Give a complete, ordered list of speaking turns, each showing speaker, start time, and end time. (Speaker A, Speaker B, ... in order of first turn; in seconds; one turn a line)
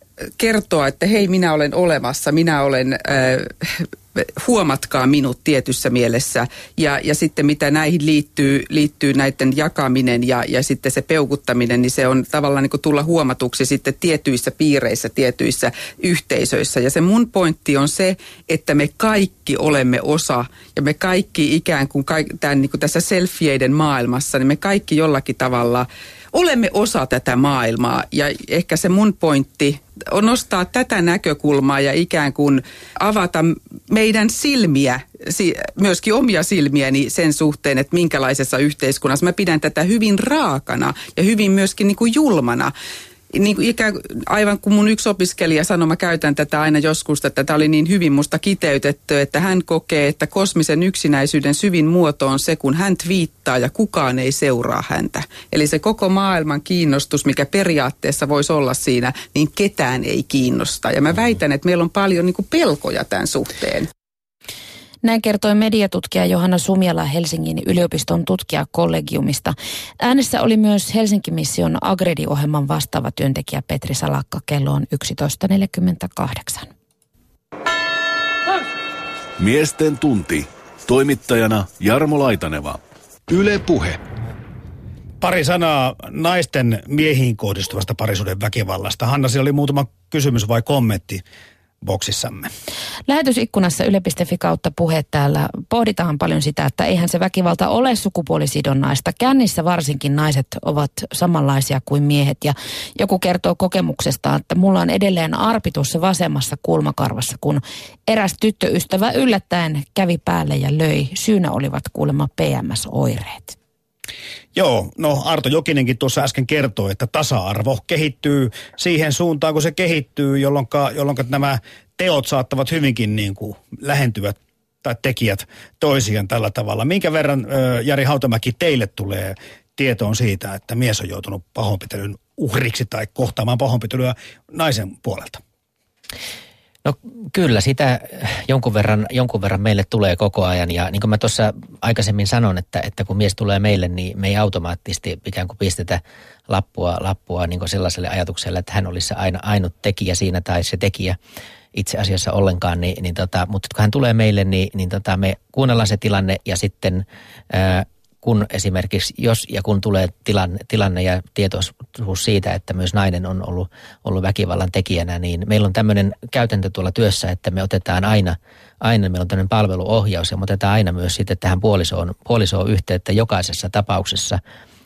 Speaker A: 0.4-42.7
Speaker A: 43.3-63.9
Speaker B: 65.0-76.7
Speaker C: 79.4-84.0
Speaker D: 85.2-91.2
Speaker D: 91.8-92.5
Speaker B: 93.1-113.6
Speaker D: 114.5-135.4
Speaker E: 136.8-151.2
Speaker E: 151.7-174.4